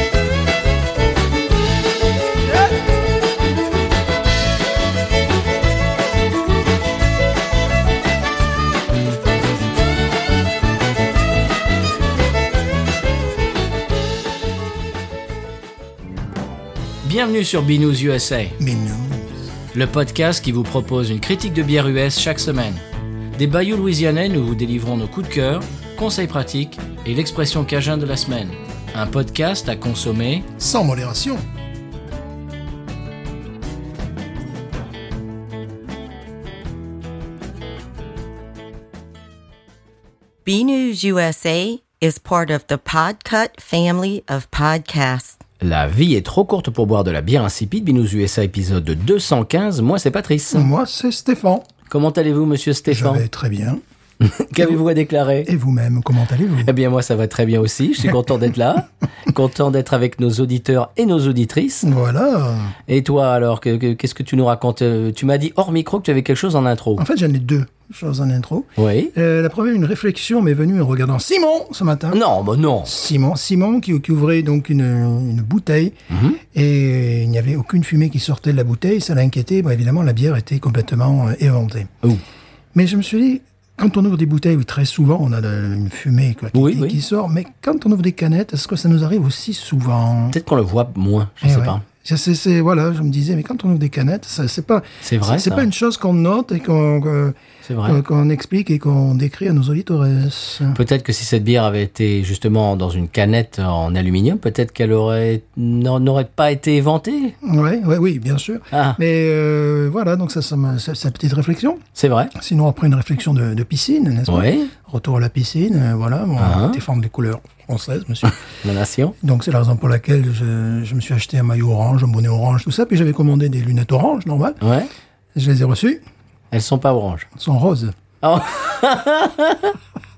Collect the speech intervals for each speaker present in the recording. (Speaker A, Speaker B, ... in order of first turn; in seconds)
Speaker A: 17.0-18.6, 19.7-22.8, 23.3-30.5, 45.6-50.7, 51.9-53.2, 54.2-55.5, 56.6-61.9, 62.9-67.0, 68.8-69.1, 72.1-72.9, 76.1-76.4, 86.5-87.0, 90.3-91.8, 95.0-95.7, 97.6-98.0, 100.7-107.3, 108.7-109.0, 112.0-112.3, 114.3-114.7, 116.4-116.8, 118.6-119.1, 124.6-124.9, 126.5-127.3, 128.2-129.8
Speaker B: 18.6-19.5, 30.6-31.4, 50.5-51.7, 52.9-53.8, 55.4-56.7, 61.8-62.8, 67.0-72.2, 72.8-81.9, 82.7-90.4, 91.4-100.8, 107.4-111.8, 112.3-118.3, 119.2-124.6, 125.3-126.0, 127.3-127.9
Speaker C: 40.5-45.4